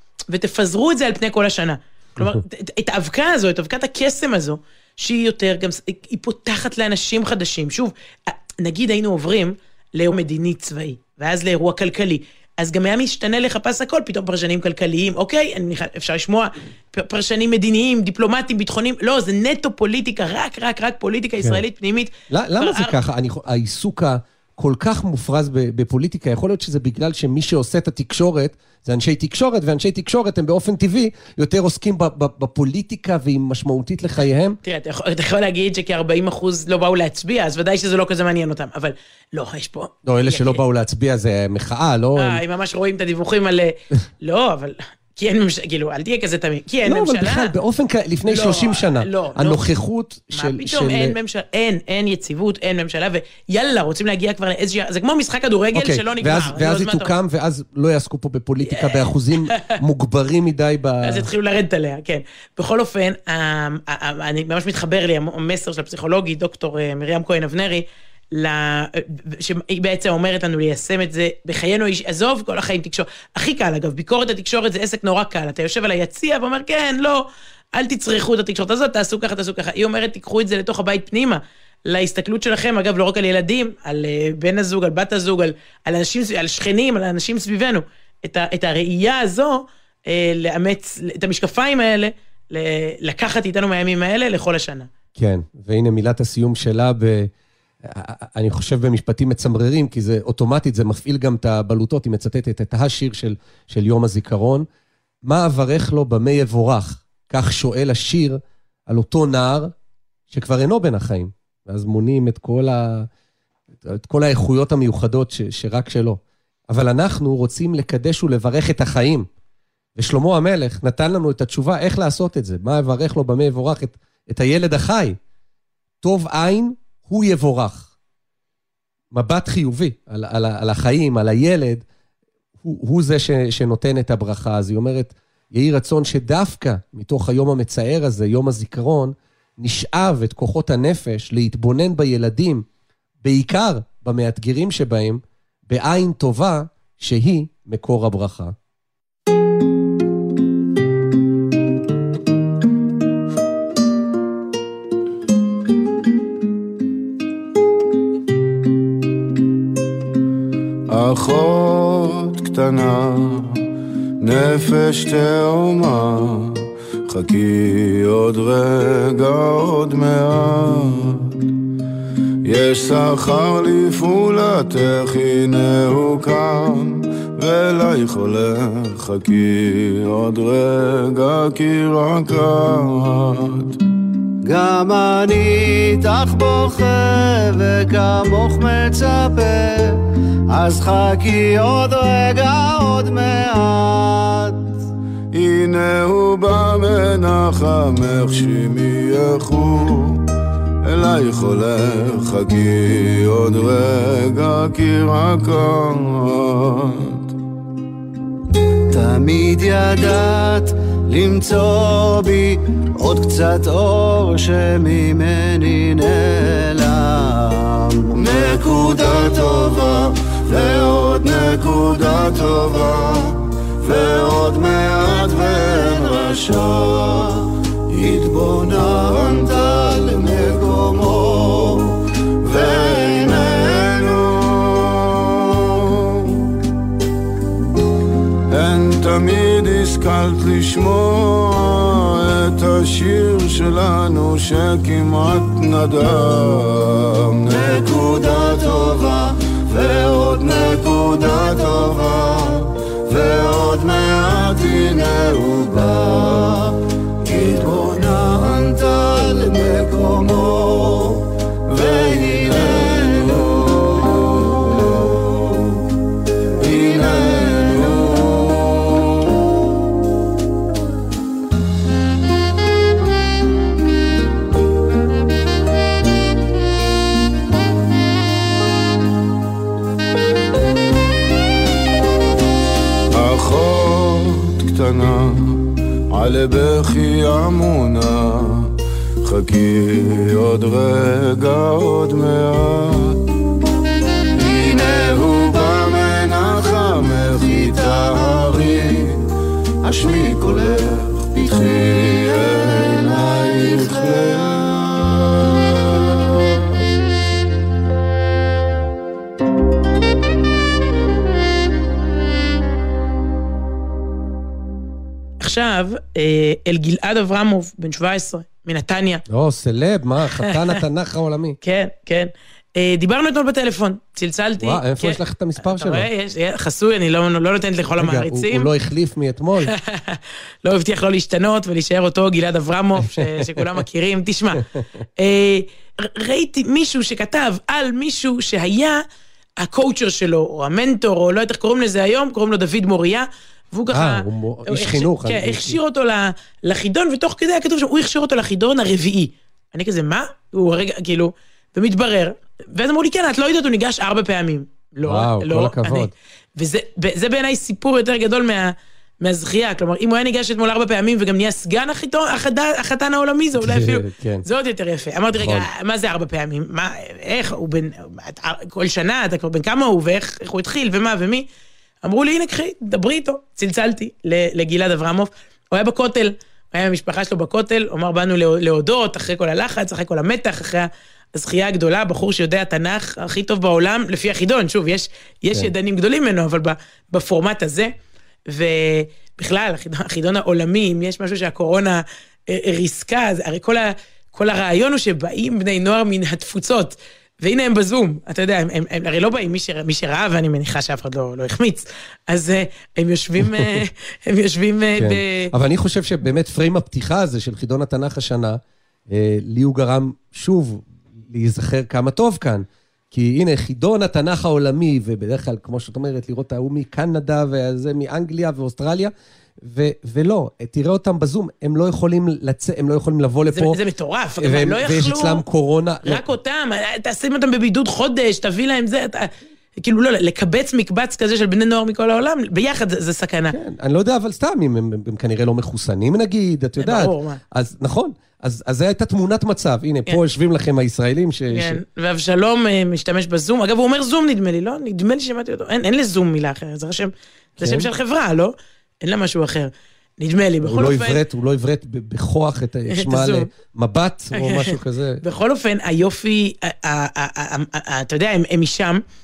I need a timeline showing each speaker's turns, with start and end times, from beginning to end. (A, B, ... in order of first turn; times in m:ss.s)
0:00.3-0:23.0 A
0:21.4-0:21.6 B
0:22.3-0:34.6 B
0:34.6-0:40.6 A
0:40.0-0:42.4 B
0:42.2-0:47.6 A
0:46.8-0:51.2 B
0:48.3-0:49.6 A
0:50.3-0:57.1 A
0:55.7-1:01.3 B
0:58.6-0:59.8 A
1:01.0-1:34.9 A
1:35.2-1:37.3 B
1:37.8-1:44.7 B
1:45.2-1:49.7 B
1:50.3-1:53.1 B
1:53.8-1:59.3 B
2:00.0-2:05.2 B
2:06.0-2:07.9 B
2:09.1-2:11.8 B
2:12.6-2:22.7 B
2:23.2-2:28.6 B
2:40.9-2:43.6 C
2:44.2-2:51.4 C
2:52.4-3:03.8 C
3:04.4-3:14.7 D
3:15.3-3:20.2 C
3:20.8-3:27.3 C
3:28.9-3:39.8 D
3:38.2-3:43.2 C
3:41.1-3:41.4 D
3:43.8-3:47.2 C
3:45.1-3:46.8 D
3:47.9-3:51.4 C
3:48.8-3:51.7 D
3:52.4-3:56.4 C
3:52.6-3:53.8 D
3:58.5-4:09.2 C
4:09.7-4:16.6 C
4:15.8-4:16.2 D
4:17.2-4:18.8 C
4:17.6-4:21.0 D
4:21.7-4:24.4 C
4:21.8-4:23.4 D
4:26.6-4:28.5 C
4:43.1-4:53.2 C
4:54.3-4:59.2 C
4:59.9-5:00.8 D
4:59.9-5:05.2 C
5:03.6-5:04.1 D
5:15.4-5:19.2 A
5:19.3-5:21.6 B
5:20.4-5:20.8 A
5:21.6-5:28.7 A
5:24.6-5:26.1 B
5:28.0-5:29.7 B
5:29.6-5:34.6 A
5:33.0-5:33.8 B
5:35.2-5:39.0 A
5:39.6-6:11.5 A
5:43.9-5:45.8 B
5:55.0-5:56.1 B
6:03.6-6:04.5 B
6:05.3-6:05.7 B
6:12.0-6:27.9 A
6:28.5-6:45.5 A
6:43.4-6:43.8 B
6:45.0-7:03.8 B
7:03.5-7:05.4 A
7:04.4-7:06.2 B
7:06.0-7:13.6 A
7:13.5-7:21.8 B
7:16.8-7:17.4 A
7:21.5-7:31.2 A
7:27.6-7:27.9 B
7:30.6-7:35.2 B
7:32.9-7:33.5 A
7:34.4-7:39.0 A